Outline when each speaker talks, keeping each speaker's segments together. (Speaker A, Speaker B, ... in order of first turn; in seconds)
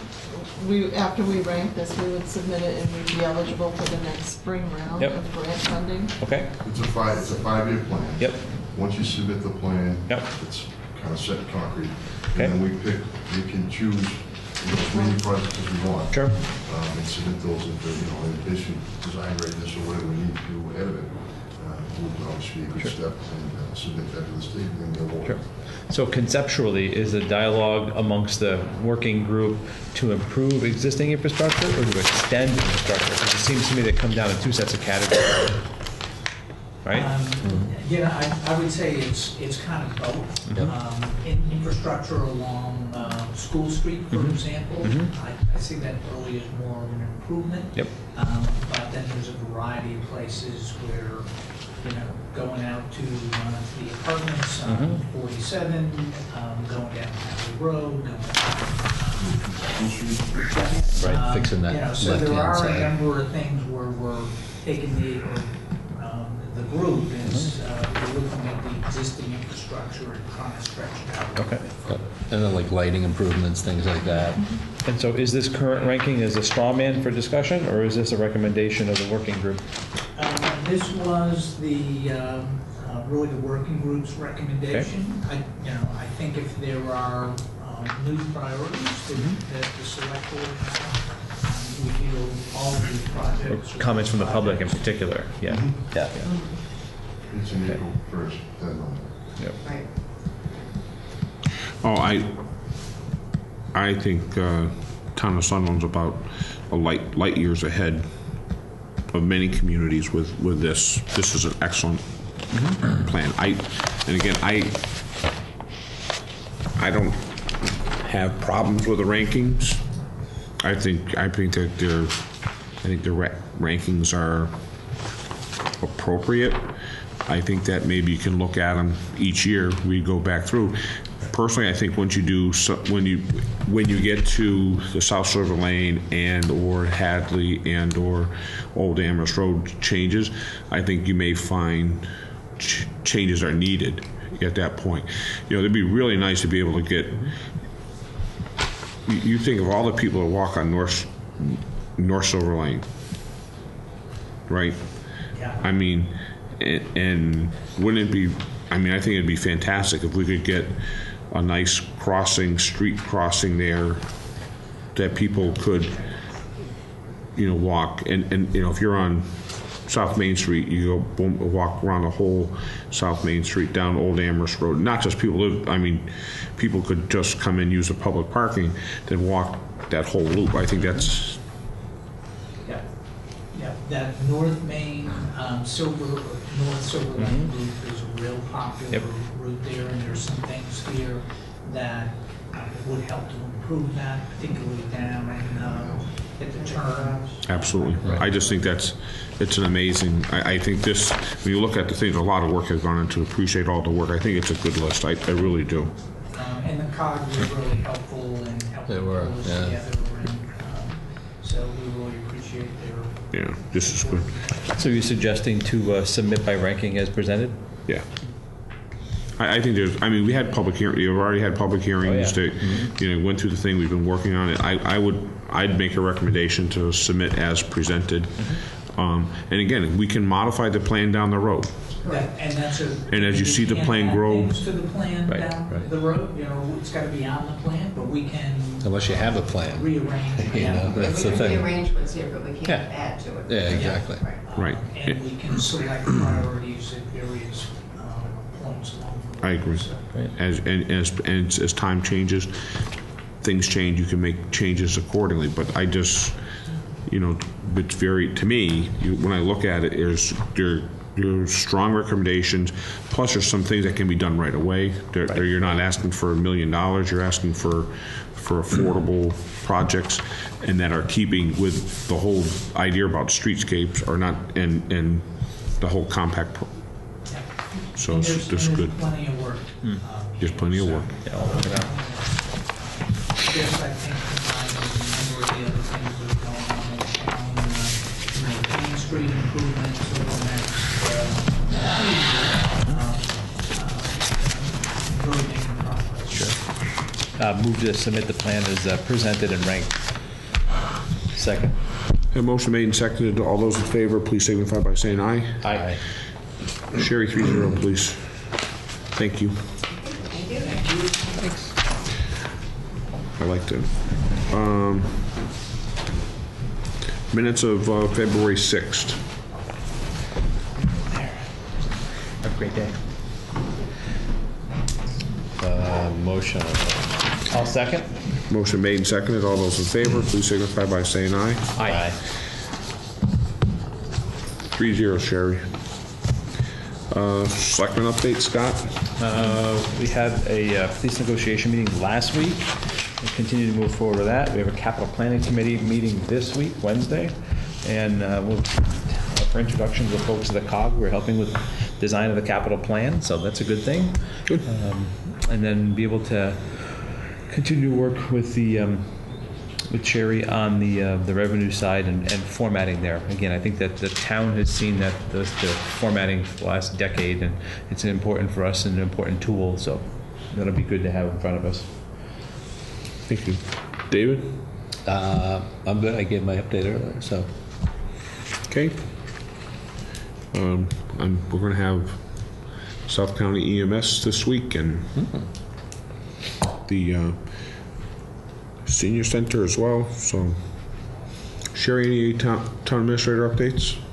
Speaker A: 0.3-6.2
Speaker B: 5.0-5.5, 6.2-6.5, 8.2-8.6, 16.1-16.4, 25.2-35.6, 36.8-37.1, 44.1-45.1, 54.6-55.0, 71.3-71.6, 74.8-79.6, 93.5-96.2, 187.2-187.5, 214.6-217.6, 222.0-222.4, 281.2-281.9, 297.3-300.1, 301.4-301.7, 305.7-305.9, 322.4-322.9, 327.5-328.1, 331.8-332.1, 339.2-372.3
Speaker C: 6.6-25.4, 59.2-60.7, 95.5-95.9, 97.2-99.2
Speaker D: 36.9-59.4, 60.5-72.1, 80.1-94.8, 182.6-197.3, 206.3-214.2, 232.0-241.4, 243.7-250.1, 277.3-296.5, 321.1-321.4
Speaker E: 61.0-62.9, 71.9-74.4, 208.8-209.8, 238.8-241.7, 242.6-242.9, 243.5-244.2, 325.6-327.1, 375.0-377.5, 385.1-385.5
Speaker F: 96.2-96.6, 99.6-99.9, 196.4-198.5, 232.0-232.3, 240.9-244.5, 309.9-310.9
Speaker G: 101.8-102.8, 103.7-108.1, 109.1-114.8, 116.8-119.8, 120.6-124.5, 125.8-126.7, 127.2-147.3, 149.1-152.9, 154.5-155.1, 155.6-164.0, 164.9-166.0, 167.3-181.4, 197.4-205.9, 213.3-214.2, 219.4-231.8, 233.1-234.5, 244.5-245.2, 249.4-252.6, 253.4-256.4, 257.1-276.9, 277.9-278.9, 280.4-281.2, 302.3-305.9, 306.9-308.6, 309.1-309.6, 313.4-315.3, 317.3-319.2, 328.5-331.7, 334.7-335.8, 337.1-339.1, 373.3-374.6, 378.7-379.0, 380.5-385.1, 386.8-387.9, 388.8-390.6, 391.7-394.0